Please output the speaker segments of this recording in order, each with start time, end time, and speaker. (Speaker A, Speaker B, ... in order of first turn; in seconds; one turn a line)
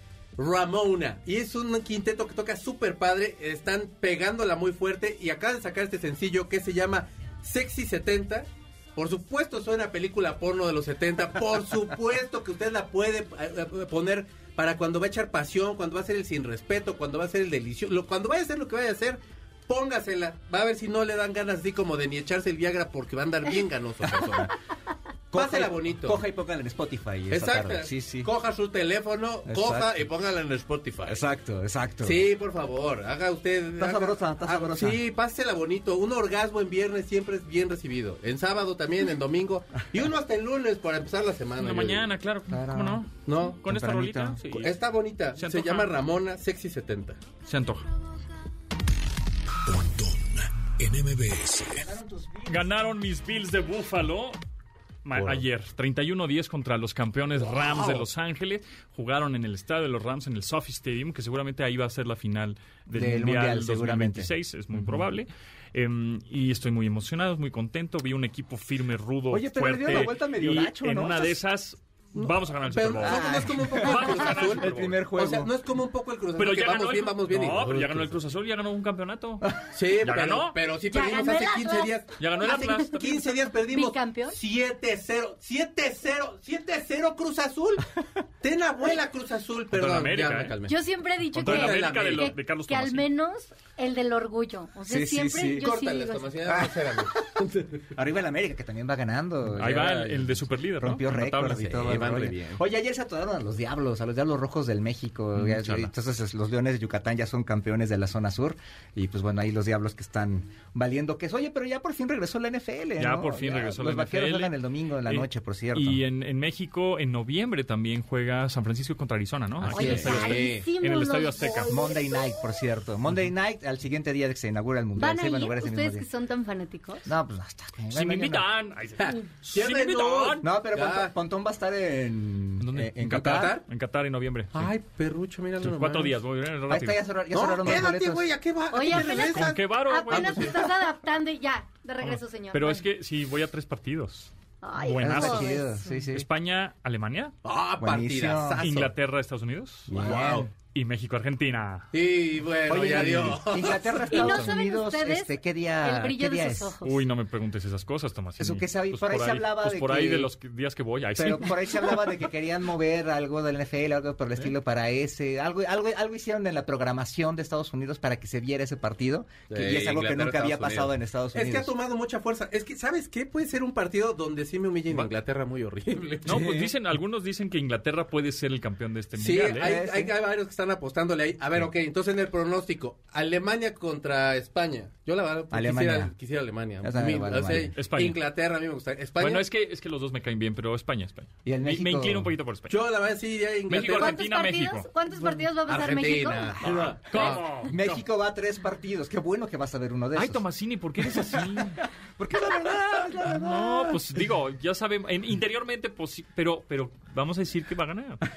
Speaker A: 0.4-24.5
Speaker B: 25.3-28.3
Speaker A: 25.3-26.2
Speaker A: 27.3-31.2
Speaker B: 29.4-30.1
Speaker B: 31.1-32.2
Speaker A: 32.0-42.1
Speaker B: 33.8-35.0
Speaker C: 41.6-44.7
Speaker B: 42.5-43.1
Speaker A: 43.2-43.6
Speaker B: 43.6-44.4
Speaker A: 44.5-47.2
Speaker C: 45.4-45.9
Speaker C: 47.4-47.9
Speaker D: 49.6-51.9
Speaker B: 51.8-52.9
Speaker C: 52.5-54.4
Speaker C: 55.0-75.0
Speaker A: 55.1-55.4
Speaker B: 62.9-64.3
Speaker B: 69.3-71.4
Speaker A: 72.5-78.2
Speaker B: 73.0-75.5
Speaker C: 76.4-79.5
Speaker A: 79.7-87.9
Speaker C: 80.0-80.5
Speaker E: 80.9-84.3
Speaker C: 82.2-83.1
Speaker A: 88.4-90.8
Speaker C: 89.7-90.5
Speaker E: 90.6-96.5
Speaker C: 91.3-93.1
Speaker A: 91.4-92.3
Speaker B: 94.8-95.7
Speaker A: 95.6-97.8
Speaker B: 96.5-96.9
Speaker B: 97.9-116.0
Speaker C: 99.5-102.2
Speaker A: 101.8-102.5
Speaker C: 105.3-105.9
Speaker C: 113.0-121.9
Speaker B: 119.6-120.3
Speaker E: 119.7-122.2
Speaker A: 119.8-120.7
Speaker B: 121.7-126.0
Speaker E: 125.0-127.1
Speaker B: 127.0-128.5
Speaker C: 127.9-130.4
Speaker A: 129.0-131.1
Speaker B: 130.4-133.5
Speaker C: 132.6-134.7
Speaker A: 133.1-133.7
Speaker A: 134.5-136.2
Speaker C: 135.6-137.0
Speaker B: 136.7-138.3
Speaker A: 137.3-140.7
Speaker E: 138.7-142.8
Speaker C: 139.0-140.6
Speaker C: 142.0-145.6
Speaker E: 144.6-146.0
Speaker B: 145.0-146.3
Speaker C: 146.1-147.3
Speaker A: 147.4-148.9
Speaker B: 147.8-148.7
Speaker C: 148.6-151.9
Speaker B: 149.9-150.5
Speaker A: 149.9-150.5
Speaker A: 151.9-153.9
Speaker B: 152.7-156.7
Speaker C: 153.0-153.4
Speaker E: 153.7-157.0
Speaker C: 154.1-154.5
Speaker C: 156.8-161.8
Speaker B: 158.4-160.3
Speaker B: 161.2-171.7
Speaker A: 169.5-176.4
Speaker B: 176.2-176.7
Speaker C: 176.2-179.7
Speaker A: 179.2-189.4
Speaker B: 179.5-180.1
Speaker B: 185.5-186.1
Speaker B: 186.8-187.7
Speaker C: 187.7-188.2
Speaker C: 189.2-192.8
Speaker B: 191.4-192.3
Speaker A: 192.7-194.2
Speaker C: 193.7-194.9
Speaker E: 193.9-197.3
Speaker A: 195.2-197.4
Speaker C: 196.6-197.8
Speaker B: 197.5-200.4
Speaker C: 200.1-201.8
Speaker B: 201.0-204.0
Speaker C: 203.2-208.2